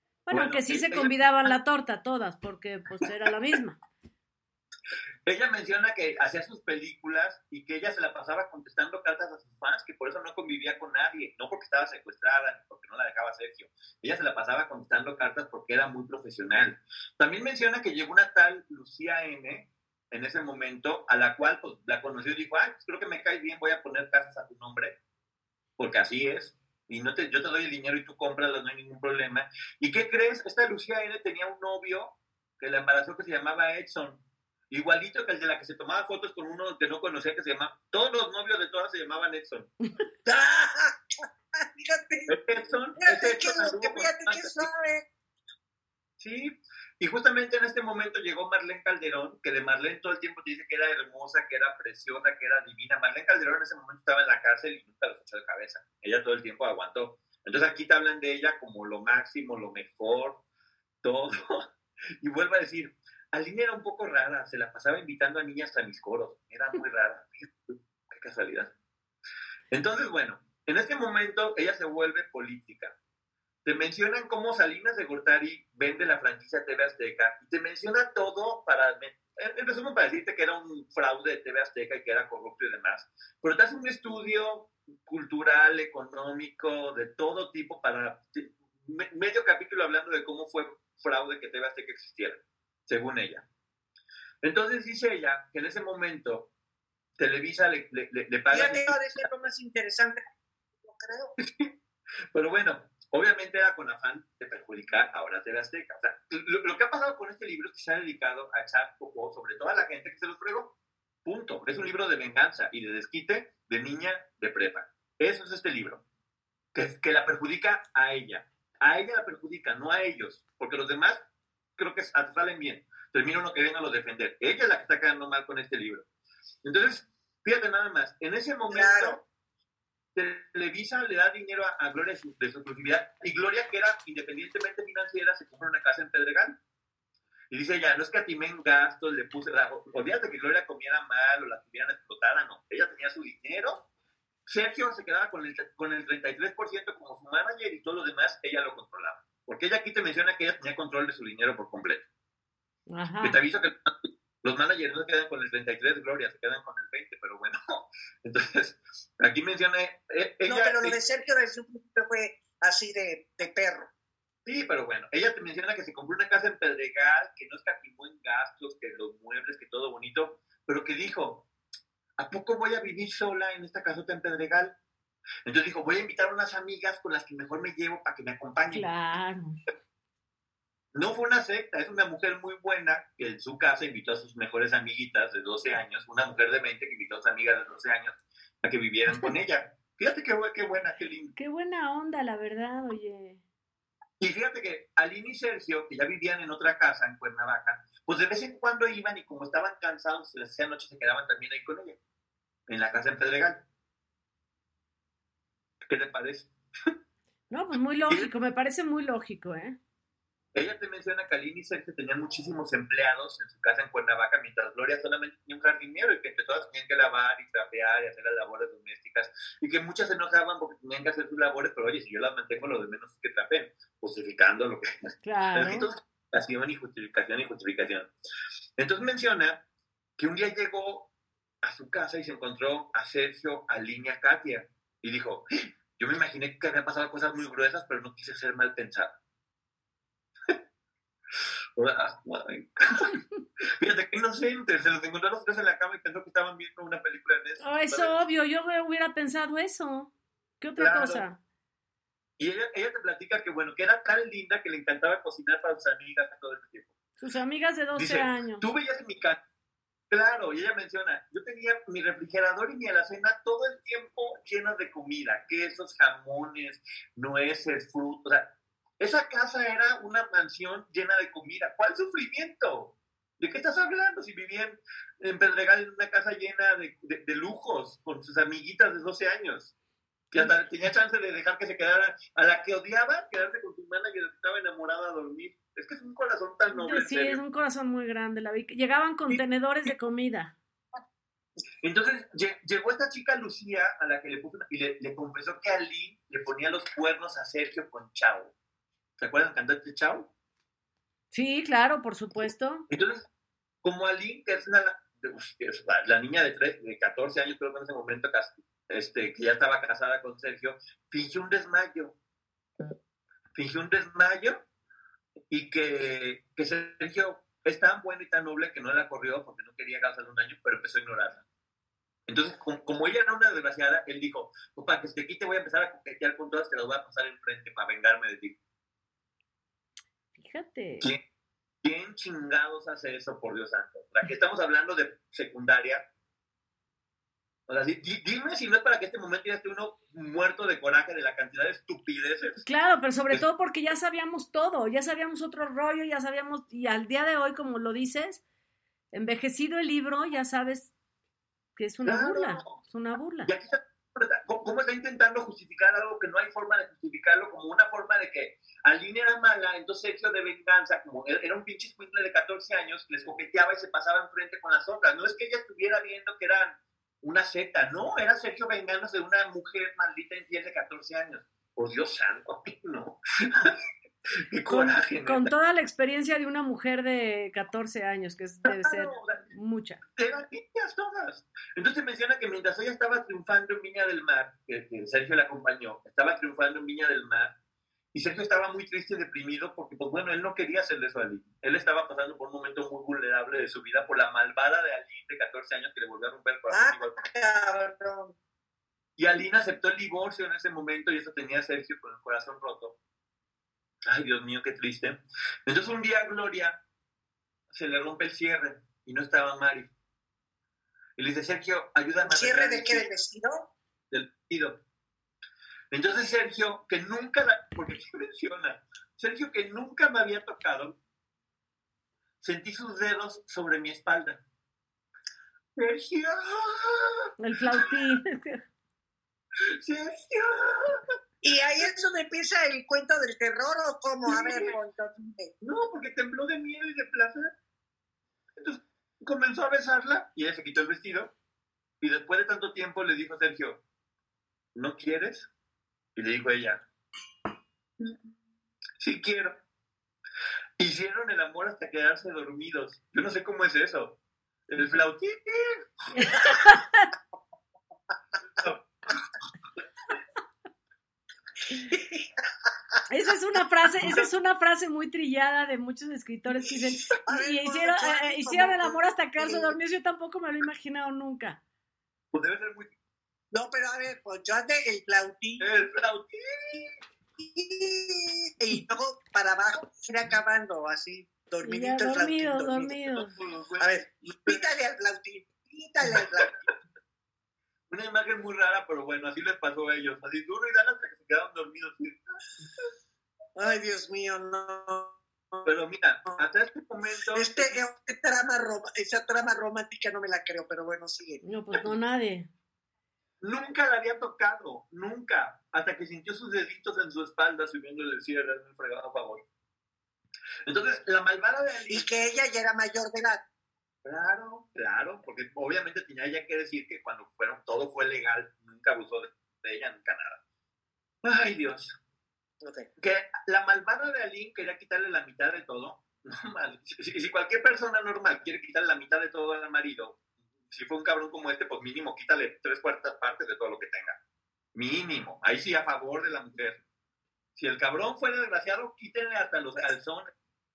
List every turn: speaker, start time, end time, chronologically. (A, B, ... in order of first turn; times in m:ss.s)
0:00.3-0:03.8 A
0:00.3-0:01.6 B
0:05.3-0:25.0 B
0:25.8-0:39.7 B
0:40.2-0:42.4 C
0:42.3-0:44.7 B
0:43.0-0:45.1 C
0:46.2-1:00.4 B
1:01.0-1:01.7 B
1:02.2-1:08.7 B
1:09.7-1:13.0 B
1:13.6-1:33.4 B
1:34.4-1:36.5 B
1:37.2-1:39.0 B
1:38.5-1:40.3 C
1:40.8-1:41.4 C
1:41.4-1:41.7 B
1:42.3-1:50.7 B
1:51.2-1:56.0 B
1:56.8-2:01.2 B
2:01.8-2:06.1 B
2:06.6-2:09.2 B
2:08.7-2:09.2 C
2:10.2-2:16.6 B
2:17.5-2:23.9 B
2:24.5-2:32.1 B
2:32.9-2:33.4 A
2:33.2-2:41.0 B
2:40.5-2:43.9 C
2:44.5-2:51.5 B
2:52.2-2:54.8 B
2:55.5-2:58.9 B
2:58.7-2:59.6 A
3:00.9-3:11.4 B
3:11.4-3:13.4 A
3:14.2-3:22.0 B
3:22.7-3:23.6 B
3:25.9-3:26.9 B
3:27.5-3:29.8 A
3:30.6-3:48.1 B
3:45.2-3:45.9 A
3:48.8-3:49.6 B
3:50.2-3:51.1 B
3:51.6-3:59.2 B
4:01.8-4:03.2 B
4:03.8-4:08.2 B
4:07.6-4:11.4 A
4:10.8-4:11.2 B
4:12.4-4:16.9 B
4:17.2-4:18.6 A
4:18.0-4:19.4 B
4:20.1-4:39.7 B
4:40.3-4:47.4 B
4:46.7-4:50.6 A
4:51.8-4:58.5 B
4:59.2-5:00.3 B
5:01.3-5:02.8 A
5:02.9-5:03.2 B
5:03.8-5:12.2 B
5:13.5-5:14.6 B
5:15.5-5:21.4 B
5:22.3-5:28.6 B
5:30.4-5:31.1 A
5:31.8-5:36.1 B
5:37.7-5:42.6 B
5:42.6-5:48.4 A
5:49.1-5:50.9 A
5:51.8-5:53.5 A
5:52.0-5:52.8 B
5:53.4-6:13.8 B
6:14.5-6:15.5 B
6:14.7-6:20.0 A
6:18.6-6:19.5 B
6:20.2-6:27.5 B
6:28.1-6:37.2 B
6:36.7-6:38.3 C
6:39.2-6:43.0 B
6:44.1-6:46.8 B
6:47.7-6:49.9 B
6:51.2-6:53.1 B
6:52.2-6:53.7 C
6:54.1-6:54.8 B
6:55.9-7:01.0 B
7:02.4-7:04.4 B
7:05.8-7:07.3 B
7:07.4-7:08.6 A
7:09.8-7:11.0 B
7:11.4-7:15.5 C
7:14.3-7:14.8 B
7:15.6-7:17.5 B
7:18.6-7:21.3 B
7:22.0-7:23.8 B
7:24.8-7:25.5 B
7:26.2-7:26.8 B
7:29.0-7:29.6 B
7:30.8-7:34.2 B
7:34.7-7:36.4 B
7:36.1-7:37.1 A
7:41.9-7:42.3 C
7:43.1-7:51.6 A
7:44.0-7:44.3 B
7:46.6-7:49.7 C
7:52.3-7:52.9 B
7:53.5-7:55.7 C
7:55.6-7:57.0 B
7:57.4-8:03.0 C
8:01.6-8:03.3 A
8:03.2-8:04.6 B
8:03.8-8:06.5 C
8:06.1-8:06.5 B
8:07.9-8:12.2 B
8:13.6-8:15.7 C
8:15.6-8:17.9 B
8:17.3-8:21.4 C
8:21.4-8:22.5 A
8:23.4-8:29.4 B
8:30.7-8:32.1 B
8:31.9-8:33.4 C
8:34.0-8:40.4 B
8:41.2-8:42.0 B
8:42.6-8:42.9 C
8:43.0-8:50.2 B
8:50.7-8:54.2 B
8:54.8-8:56.8 B
8:57.6-9:00.3 B